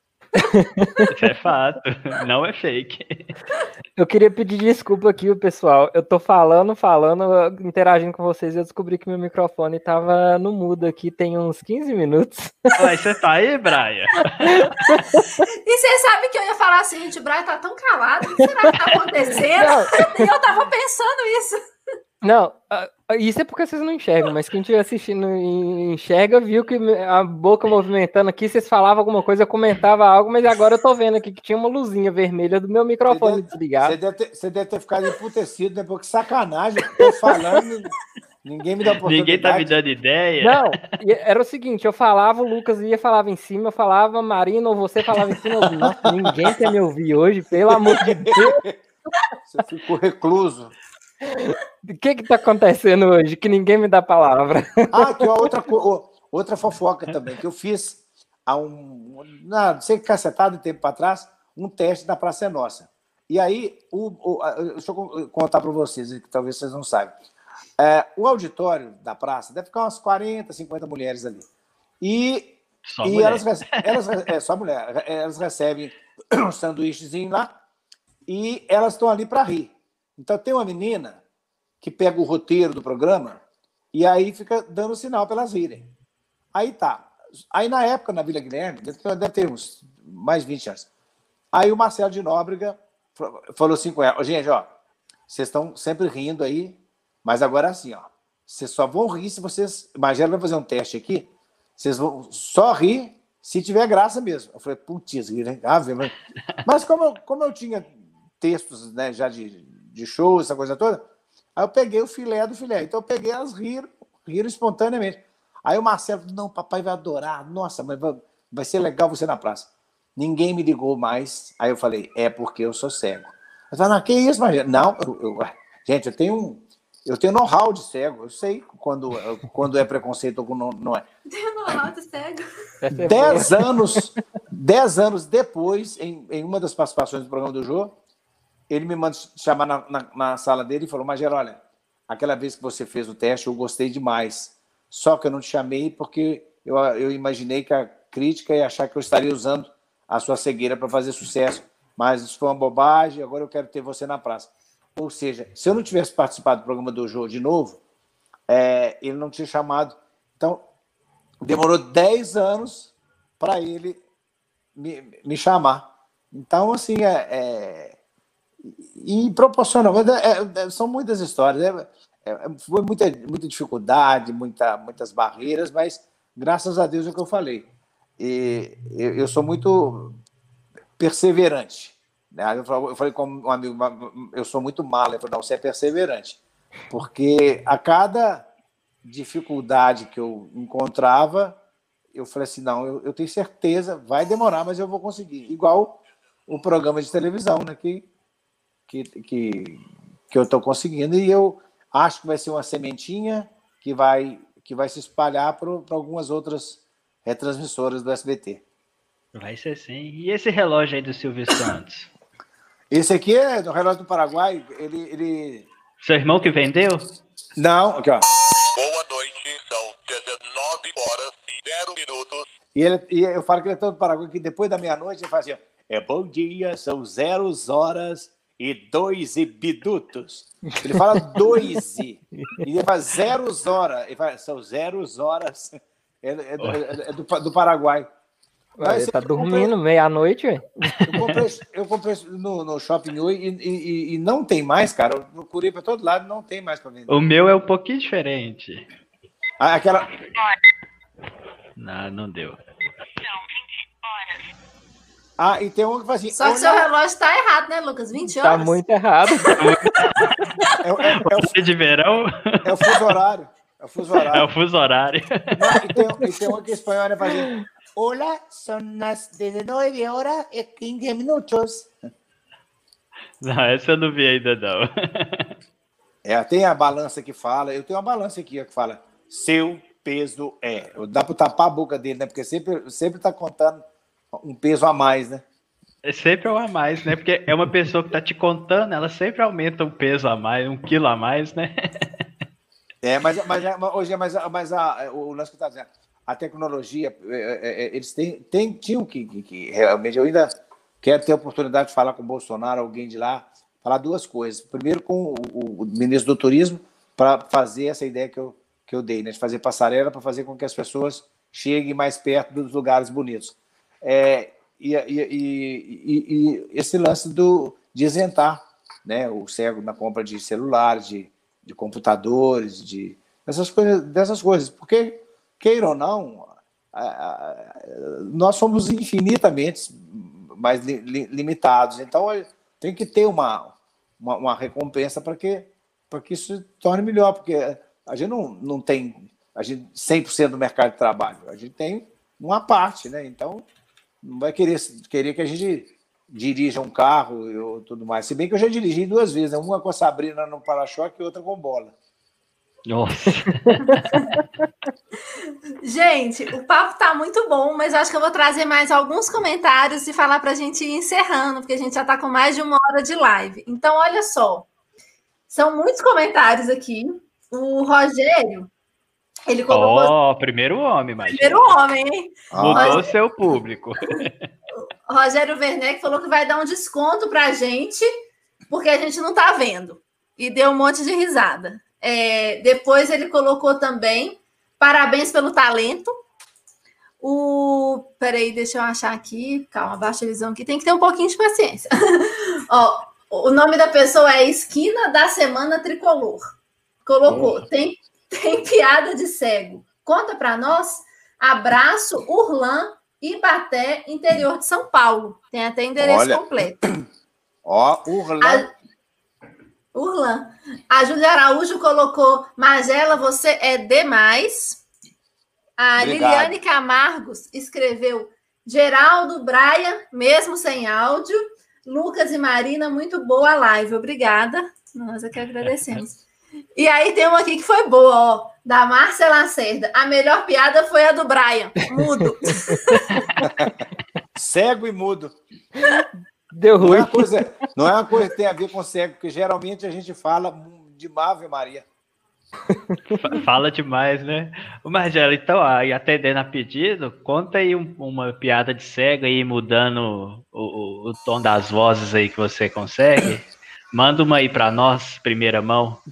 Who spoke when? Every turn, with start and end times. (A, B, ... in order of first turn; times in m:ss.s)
0:00.4-0:01.0 A
0:01.1-0:03.2 B
0:04.0-0:12.7 A
0:12.7-0:14.8 B
0:14.4-0:15.4 A
0:15.6-0:21.6 C
0:19.6-0:20.2 A
0:22.2-0:34.0 A
0:33.1-0:37.9 D
0:38.4-0:39.7 D
0:39.0-0:40.7 B
0:40.4-0:48.6 A
0:45.8-0:46.7 D
0:47.7-0:48.8 D
0:49.4-0:50.7 D
0:51.2-0:55.2 A
0:54.9-1:07.1 D
1:07.8-1:11.4 D
1:12.0-1:17.5 D
1:12.9-1:14.0 B
1:18.3-1:21.2 D
1:21.8-1:23.4 D
1:23.9-1:25.9 D
1:26.5-1:30.9 D
1:31.5-1:34.7 D
1:35.3-1:46.1 D
1:46.6-1:51.0 D
1:51.6-2:11.0 D
2:11.3-2:12.4 C
2:12.8-2:14.0 A
2:13.0-2:18.0 D
2:18.7-2:37.8 D
2:38.5-2:40.6 D
2:41.4-2:44.0 D
2:44.8-2:48.0 D
2:48.7-2:57.7 D
2:58.2-3:00.2 D
3:01.0-3:08.5 D
3:09.0-3:11.6 D
3:12.1-3:18.0 D
3:18.9-3:28.6 D
3:29.3-3:32.1 B
3:32.9-3:35.7 D
3:36.0-3:37.0 B
3:37.6-3:38.2 D
3:38.7-3:42.4 E
3:42.7-3:58.1 D
3:51.2-3:51.8 A
3:56.6-3:56.9 B
3:58.8-4:01.0 A
3:58.8-3:59.7 D
4:01.0-4:07.1 D
4:07.1-4:08.8 B
4:09.6-4:10.1 D
4:11.8-4:12.6 B
4:15.4-4:16.9 D
4:16.3-4:19.5 C
4:18.2-4:20.1 A
4:19.6-4:20.3 B
4:20.8-4:21.6 D
4:21.1-4:23.0 B
4:22.6-4:24.5 D
4:24.3-4:25.7 B
4:25.5-4:31.9 D
4:27.3-4:27.6 A
4:33.4-4:35.5 B
4:36.2-4:45.4 D
4:46.0-4:52.0 B
4:53.0-5:43.6 D
5:44.2-5:51.9 D
5:52.9-5:54.1 B
5:55.4-6:04.7 C
6:05.5-6:08.7 C
6:09.5-6:10.1 C
6:09.7-6:11.8 B
6:11.3-6:13.0 C
6:12.5-6:13.0 D
6:12.6-6:14.3 B
6:15.1-6:18.1 C
6:18.7-6:26.1 C
6:27.2-6:36.4 C
6:37.0-6:46.8 C
6:37.2-6:37.6 D
6:46.0-6:46.9 D
6:47.6-6:48.7 D
6:48.4-6:48.7 C
6:49.9-6:54.8 C
6:55.8-7:06.2 C
6:56.0-6:56.6 D
7:06.8-7:13.3 C
7:12.0-7:13.3 A
7:13.4-7:13.7 D
7:14.3-7:15.3 D
7:15.8-7:17.4 A
7:16.8-7:21.8 D
7:22.7-7:23.2 A
7:23.2-7:36.0 B